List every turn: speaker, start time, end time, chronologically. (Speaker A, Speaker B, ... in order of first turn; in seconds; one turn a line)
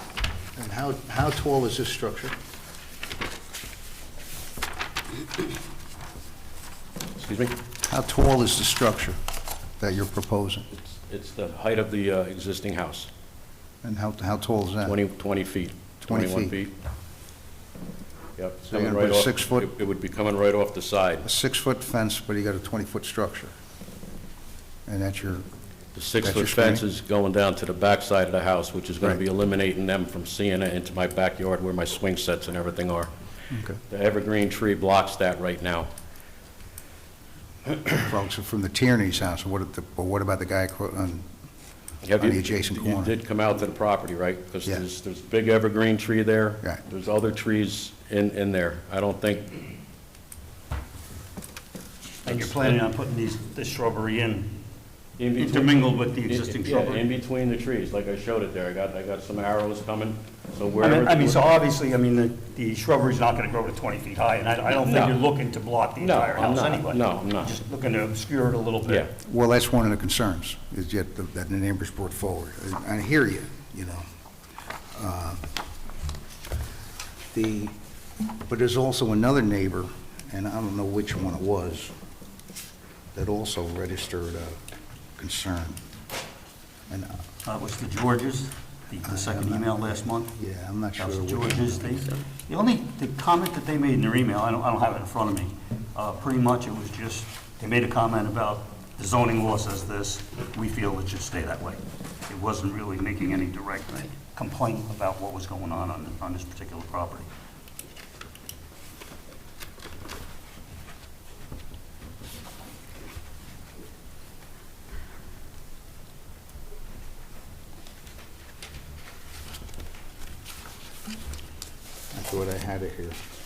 Speaker A: 0.6-2.3
Speaker B: 7.2-7.5
Speaker A: 7.8-9.2
Speaker A: 9.8-10.7
Speaker B: 10.7-13.1
Speaker A: 13.8-15.0
Speaker B: 14.8-16.7
Speaker A: 16.0-16.5
Speaker B: 18.4-21.2
Speaker A: 18.7-19.7
Speaker A: 21.2-23.5
Speaker A: 24.9-25.4
Speaker B: 25.9-33.1
Speaker A: 26.2-26.8
Speaker A: 33.5-33.8
Speaker B: 33.9-35.9
Speaker A: 37.9-41.2
Speaker B: 42.0-49.6
Speaker A: 42.2-43.1
Speaker C: 52.2-54.5
Speaker B: 52.2-52.8
Speaker B: 55.2-61.5
Speaker C: 55.4-57.0
Speaker C: 60.8-69.1
Speaker B: 64.7-65.1
Speaker B: 66.0-67.5
Speaker A: 69.2-74.0
Speaker A: 74.9-75.4
Speaker A: 77.3-77.7
Speaker A: 78.5-81.9
Speaker A: 83.1-84.6
Speaker A: 85.2-85.8
Speaker C: 87.4-90.3
Speaker A: 89.0-92.0
Speaker C: 91.0-107.3
Speaker A: 122.1-123.2